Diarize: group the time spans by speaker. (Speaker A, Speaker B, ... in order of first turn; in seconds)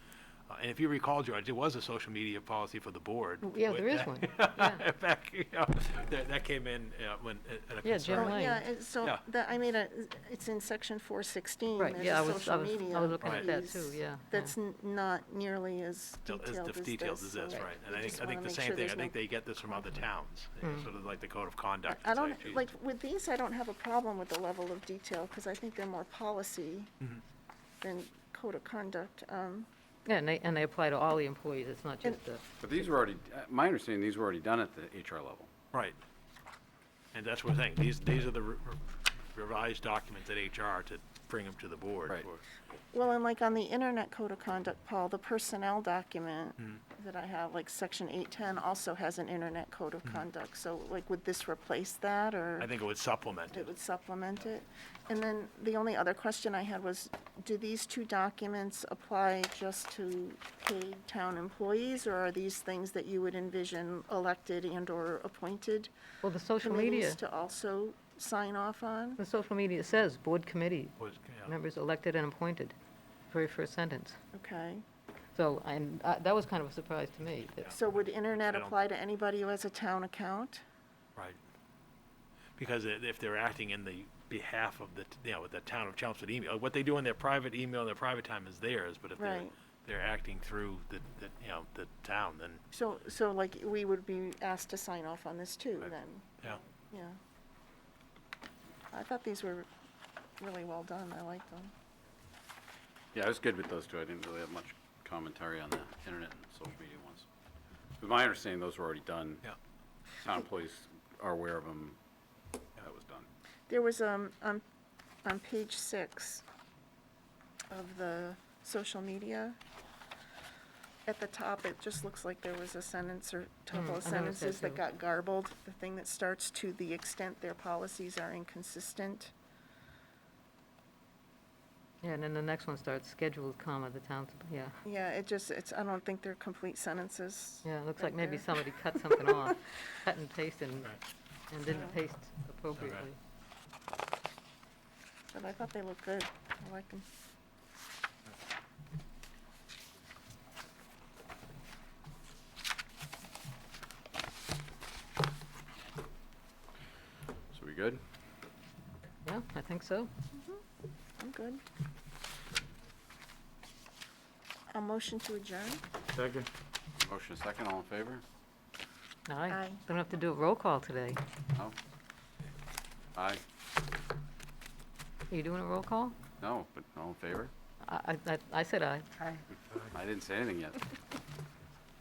Speaker A: 0.5-8.4, 13.2-13.5, 16.3-22.6, 35.7-36.0, 37.1-42.4, 52.6-53.7, 71.0-71.5, 78.3-78.7, 82.6-92.6, 142.8-143.0
Speaker B: 3.4-4.8, 7.8-8.7, 11.8-14.6, 20.6-20.9, 30.1-32.7, 66.2-67.2, 69.2-72.8, 73.3-74.2, 75.3-77.8, 123.7-124.8, 132.0-134.8, 137.7-140.9, 141.5-143.2, 159.2-160.1, 169.3-171.2, 175.3-176.2, 177.8-179.4
Speaker C: 8.1-19.9, 21.9-26.9, 27.8-29.7, 42.9-52.7, 53.5-65.9, 66.6-69.2, 74.3-74.8, 77.7-80.6, 89.2-89.5, 92.7-97.2, 98.9-99.7, 100.4-101.7, 113.7-114.6, 115.2-116.4, 117.7-119.6, 121.1-129.3, 134.8-139.6, 141.7-142.0, 145.3-147.1, 160.3-160.6, 161.2-161.6, 164.7-165.8, 169.5-169.8
Speaker D: 32.6-35.5, 103.1-107.3, 108.0-109.5, 110.2-112.0, 112.8-113.3, 157.5-158.0, 166.2-166.5, 167.0-168.2, 173.2-173.4, 176.4-177.5, 179.8-180.9